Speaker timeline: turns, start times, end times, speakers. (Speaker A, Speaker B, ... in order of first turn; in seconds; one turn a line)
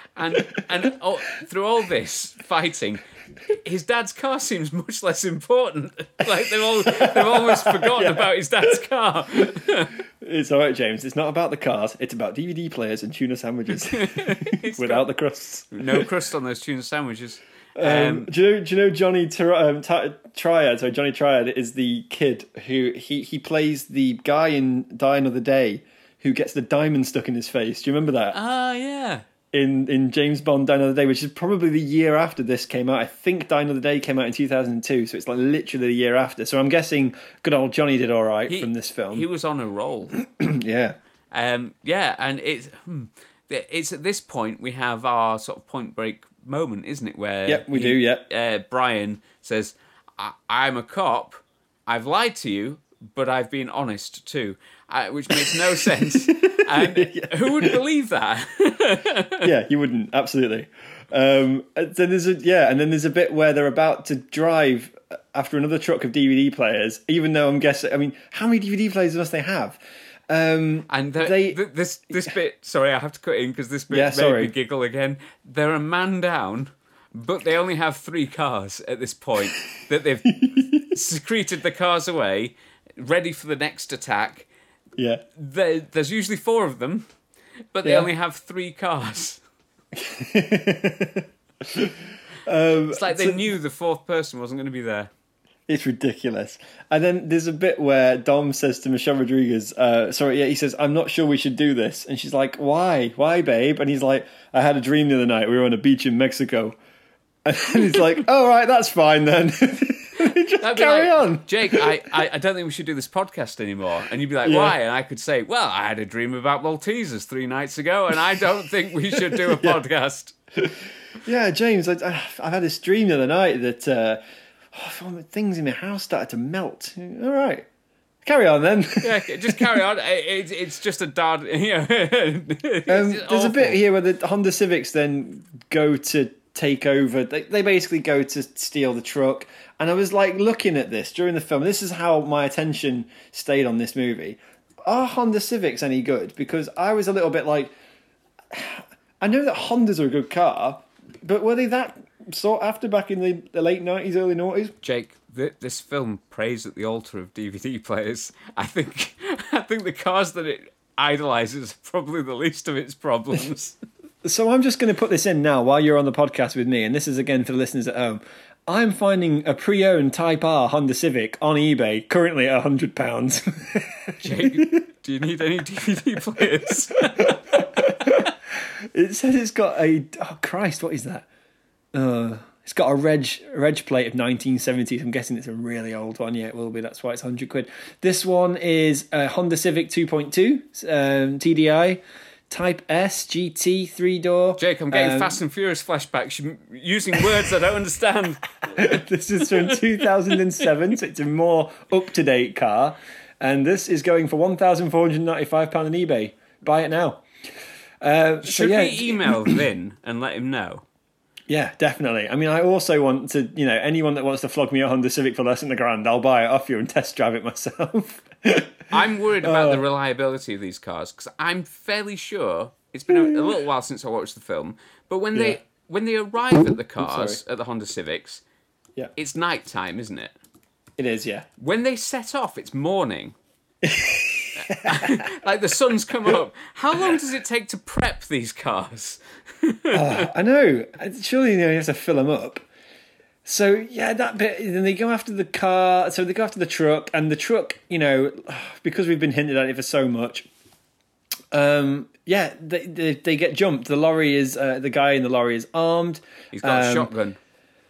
Speaker A: 0.2-10.0
Speaker B: 6.8-8.8
Speaker B: 10.2-16.1
Speaker A: 13.9-15.0
Speaker A: 15.7-18.3
Speaker B: 17.8-28.4
Speaker A: 28.3-29.2
Speaker B: 29.5-39.3
Speaker A: 38.5-40.2
Speaker B: 40.2-41.0
Speaker A: 41.3-59.5
Speaker B: 47.5-48.2
Speaker B: 55.3-57.8
Speaker B: 59.4-71.6
Speaker A: 70.9-84.5
Speaker B: 73.9-74.5
Speaker B: 80.3-80.9
Speaker B: 85.0-85.2
Speaker A: 85.3-87.1
Speaker A: 87.7-89.4
Speaker B: 87.8-88.1
Speaker B: 89.9-93.4
Speaker A: 92.9-95.1
Speaker B: 95.7-106.8
Speaker B: 107.5-111.9
Speaker A: 110.2-120.4
Speaker B: 114.4-114.8
Speaker B: 119.1-119.8
Speaker B: 120.6-124.2
Speaker B: 124.7-127.7
Speaker B: 128.2-129.7
Speaker A: 129.0-133.8
Speaker B: 132.9-147.7
Speaker B: 148.5-154.8
Speaker A: 154.8-163.8
Speaker B: 164.2-174.8
Speaker A: 174.2-178.3
Speaker B: 176.4-181.3
Speaker B: 181.9-195.4
Speaker A: 194.6-200.4
Speaker B: 198.7-207.2
Speaker B: 208.0-209.6
Speaker A: 208.4-210.8
Speaker B: 211.5-219.8
Speaker A: 218.9-228.4
Speaker B: 223.1-223.5
Speaker B: 227.0-227.4
Speaker A: 229.2-230.3
Speaker B: 231.0-231.5
Speaker A: 231.6-233.4
Speaker B: 233.8-235.3
Speaker A: 234.6-240.3
Speaker B: 239.9-242.7
Speaker B: 243.4-250.5
Speaker B: 251.5-257.1
Speaker A: 256.5-257.4